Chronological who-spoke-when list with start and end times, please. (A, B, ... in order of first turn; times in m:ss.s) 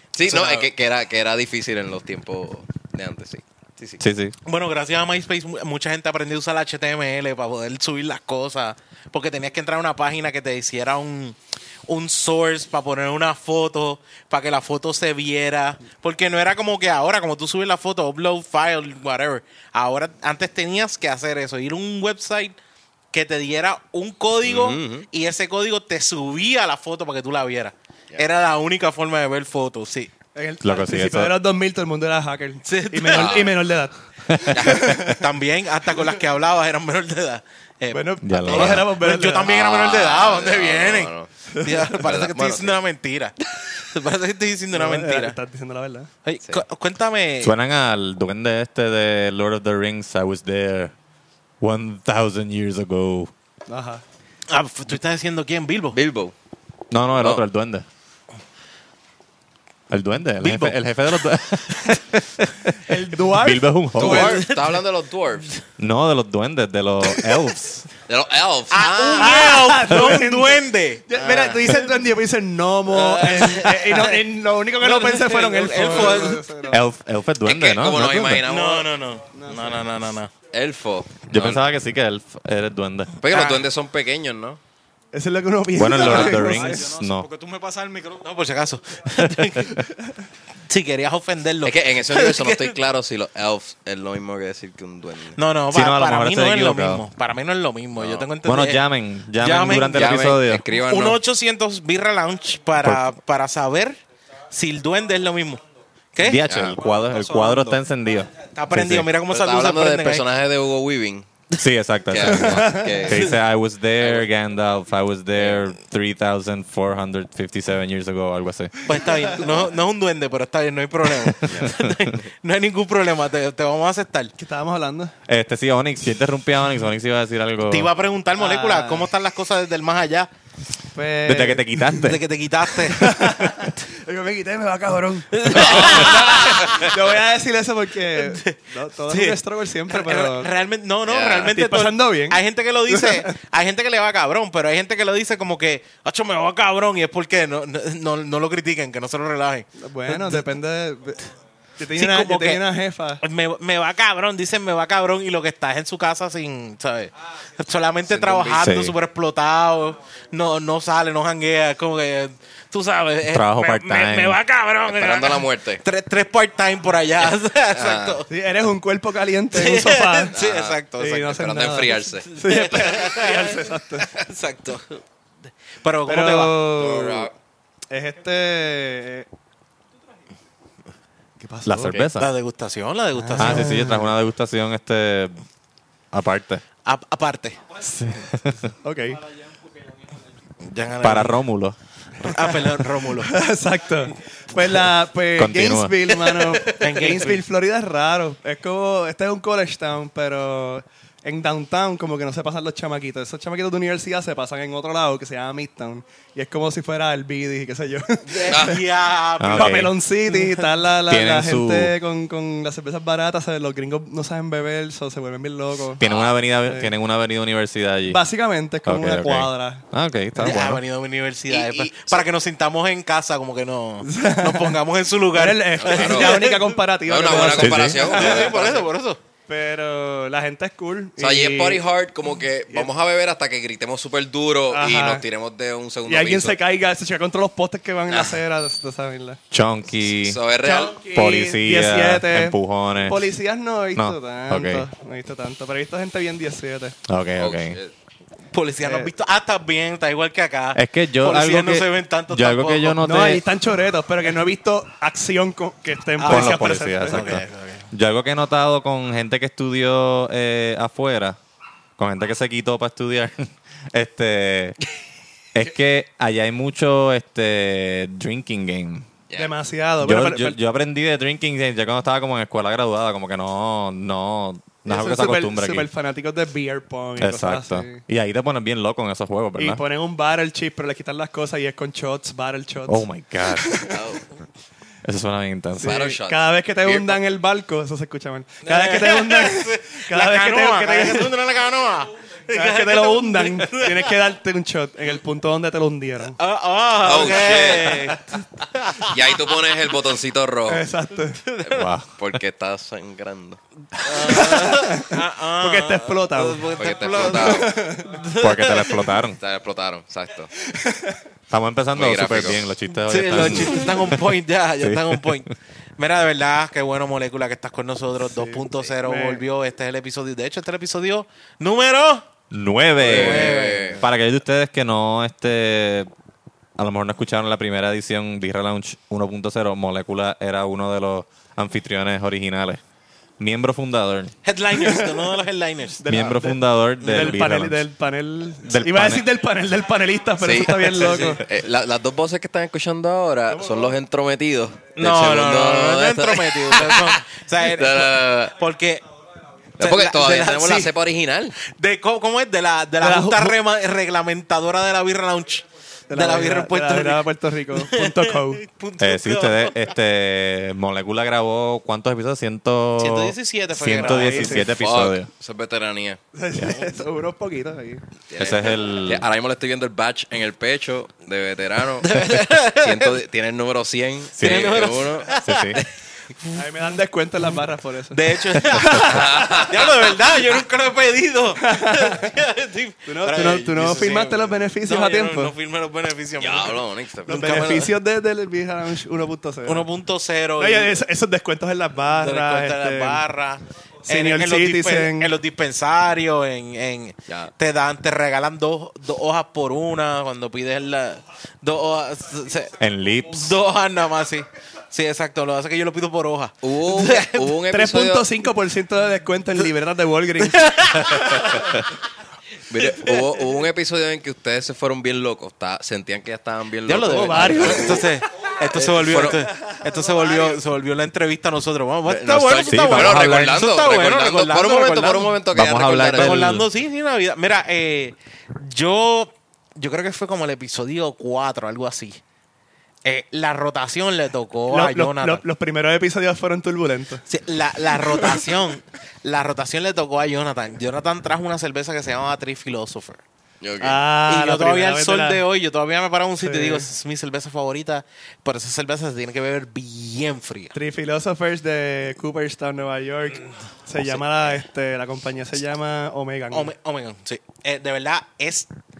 0:00.1-0:04.0 A
0:00.2-0:00.7 B
0:04.0-0:04.4 C
0:04.4-0:11.4 B
0:11.9-0:22.6 B
0:23.1-0:30.1 B
0:24.4-0:25.0 A
0:30.3-0:35.2 D
0:30.6-0:31.3 C
0:32.6-0:33.5 B
0:33.1-0:33.5 A
0:34.3-0:34.6 C
0:34.5-0:35.0 A
0:34.9-0:45.4 B
0:37.9-0:39.5 D
0:38.2-0:38.9 C
0:39.4-0:41.3 A
0:41.9-0:42.8 A
0:44.7-0:46.1 D
0:46.2-0:47.6 B
0:47.4-0:50.9 C
0:51.6-0:53.3 C
0:53.7-0:54.0 D
0:54.5-0:56.0 B
0:55.9-0:56.3 A
0:56.9-0:57.8 C
0:59.9-1:04.4 C
1:00.4-1:00.8 B
1:02.9-1:03.7 D
1:04.0-1:05.6 A
1:04.0-1:04.8 B
1:05.8-1:07.9 C
1:08.1-1:09.6 A
1:08.7-1:11.8 B
1:09.2-1:16.8 D
1:12.9-1:14.1 A
1:14.8-1:16.5 B
1:16.7-1:18.4 C
1:17.4-1:18.9 A
1:18.3-1:20.3 B
1:19.3-1:19.8 D
1:20.5-1:21.6 A
1:21.3-1:23.1 C
1:23.2-1:24.6 A
1:23.3-1:23.6 B
1:25.1-1:26.9 D
1:25.8-1:27.3 C
1:25.9-1:28.3 E
1:28.2-1:29.8 B
1:29.3-1:29.7 C
1:30.7-1:32.8 B
1:31.6-1:35.4 A
1:35.4-1:38.8 B
1:35.7-1:37.0 C
1:38.0-1:38.3 A
1:38.4-1:40.6 C
1:39.4-1:40.1 B
1:39.9-1:41.2 A
1:40.8-1:44.0 B
1:42.8-1:43.1 C
1:44.5-1:45.6 B
1:46.1-1:46.5 B
1:46.2-1:49.1 C
1:46.4-1:46.8 A
1:46.9-1:47.8 E
1:48.5-1:50.2 B
1:49.3-1:51.3 A
1:51.6-1:58.7 C
1:52.1-1:53.4 A
1:52.3-1:52.9 D
1:54.0-1:54.3 A
1:58.8-2:04.3 B
2:01.2-2:02.1 C
2:01.5-2:01.7 A
2:04.4-2:05.1 D
2:05.3-2:07.9 C
2:07.7-2:10.3 B
2:08.4-2:09.1 D
2:10.9-2:12.1 D
2:11.2-2:12.2 C
2:12.0-2:13.1 B
2:12.9-2:20.5 D
2:13.4-2:13.7 C
2:15.3-2:16.9 B
2:15.5-2:16.8 A
2:18.2-2:30.4 B
2:21.1-2:21.5 A
2:21.4-2:23.3 D
2:29.8-2:31.2 D
2:31.8-2:33.2 D
2:31.9-2:32.6 B
2:33.2-2:48.2 B
2:38.1-2:38.8 A
2:38.6-2:38.9 C
2:43.3-2:44.4 C
2:44.9-2:45.8 A
2:47.2-2:48.2 A
2:48.3-2:50.3 D
2:49.5-2:51.4 B
2:50.3-2:52.3 A
2:51.0-2:54.1 D
2:52.3-2:55.0 B
2:55.8-2:56.6 B
2:56.0-2:57.3 D
2:56.8-2:57.3 A
2:57.9-2:59.3 D
3:01.4-3:02.0 D
3:01.6-3:02.3 C
3:02.2-3:03.9 B
3:03.2-3:04.1 D
3:03.4-3:05.4 C
3:06.1-3:06.6 C
3:06.8-3:07.7 B
3:07.8-3:08.7 C
3:08.8-3:09.2 D
3:10.6-3:11.4 B
3:11.0-3:11.8 C
3:12.2-3:13.4 B
3:13.2-3:28.8 D
3:15.4-3:16.1 C
3:16.3-3:17.4 B
3:28.3-3:30.4 B
3:28.5-3:28.8 A
3:29.4-3:29.9 C
3:29.5-3:36.0 D
3:31.0-3:31.9 C
3:36.0-3:38.2 C
3:36.0-3:36.4 A
3:36.6-3:36.9 D
3:38.1-3:39.8 D
3:38.8-3:40.8 C
3:40.4-3:46.7 B
3:41.5-3:42.2 A
3:44.0-3:44.8 D
3:45.3-3:48.6 D
3:45.8-3:46.5 A
3:47.0-3:48.9 A
3:47.2-3:49.2 B
3:47.6-3:48.0 C
3:49.5-3:51.8 D
3:51.2-3:56.6 A
3:54.7-3:55.2 D
3:56.1-3:59.4 D
3:58.1-3:58.4 A
3:59.5-4:00.4 C
4:00.1-4:01.0 A
4:00.6-4:07.0 D
4:01.1-4:03.2 C
4:03.9-4:04.9 C
4:07.1-4:07.8 C
4:07.4-4:07.9 A
4:08.5-4:13.0 B
4:08.8-4:09.1 D
4:10.7-4:13.4 C
4:13.0-4:17.3 D
4:16.2-4:17.9 B
4:16.2-4:21.4 C
4:22.0-4:24.8 C
4:25.5-4:29.1 C
4:29.3-4:29.5 A
4:29.4-4:30.6 D
4:30.0-4:35.9 C
4:34.8-4:38.0 D
4:37.2-4:39.8 C
4:39.6-4:44.0 D
4:42.9-4:43.9 C
4:43.9-4:44.2 A
4:45.0-4:46.0 C
4:45.8-4:51.3 D
4:45.8-4:47.2 A
4:48.6-4:54.1 B
4:52.5-4:56.4 D
4:56.4-4:59.2 B
4:57.0-4:58.2 A
4:59.1-5:00.8 A
5:00.7-5:01.4 D
5:01.4-5:01.9 B
5:01.6-5:04.5 A
5:01.7-5:02.4 C
5:04.0-5:09.1 B
5:04.1-5:06.6 D
5:06.7-5:07.7 A
5:07.3-5:08.1 D
5:08.4-5:09.4 C
5:09.4-5:10.5 A
5:10.7-5:11.2 D
5:11.5-5:14.2 C
5:11.9-5:12.6 A
5:13.1-5:22.2 B
5:14.8-5:15.4 C
5:18.2-5:19.4 D
5:22.5-5:26.1 C
5:23.0-5:24.0 A
5:23.0-5:24.0 B
5:26.8-5:32.8 C
5:33.4-5:34.3 C
5:34.4-5:36.0 B
5:34.8-5:35.2 D
5:36.0-5:41.4 D
5:36.0-5:37.8 C
5:37.0-5:37.3 B
5:38.6-5:39.2 C
5:40.4-5:48.6 A
5:43.6-5:43.9 D
5:45.0-5:49.0 B
5:49.8-5:50.9 B
5:49.8-5:51.6 A
5:51.6-5:59.8 B
5:53.0-5:53.6 D
5:56.1-5:58.6 D
5:59.0-6:05.3 C
6:03.0-6:04.6 B
6:03.9-6:04.7 D
6:04.7-6:06.2 A
6:06.3-6:08.0 D
6:08.3-6:15.4 A
6:08.4-6:09.2 C
6:12.0-6:13.2 B
6:14.4-6:15.8 C
6:14.4-6:15.8 B
6:16.5-6:19.4 D
6:18.1-6:27.9 B
6:19.0-6:19.8 A
6:21.6-6:22.3 D
6:23.0-6:25.5 D
6:26.4-6:27.7 A
6:27.3-6:29.9 D
6:29.6-6:31.0 B
6:30.6-6:33.2 D
6:32.1-6:47.5 B
6:34.1-6:35.3 D
6:42.8-6:43.6 C
6:46.6-6:48.3 A
6:47.7-6:50.7 D
6:50.5-6:51.6 B
6:52.7-6:58.1 A
6:56.8-7:12.2 B
6:57.1-6:58.0 D
6:58.7-6:59.4 A
7:02.0-7:06.5 A
7:02.7-7:03.4 C
7:05.5-7:06.6 C
7:13.0-7:15.4 B
7:14.7-7:17.2 D
7:17.3-7:23.2 B
7:23.6-7:24.0 A
7:23.8-7:25.4 D
7:24.2-7:30.7 B
7:26.4-7:26.8 D
7:30.7-7:36.7 D
7:36.5-7:38.7 B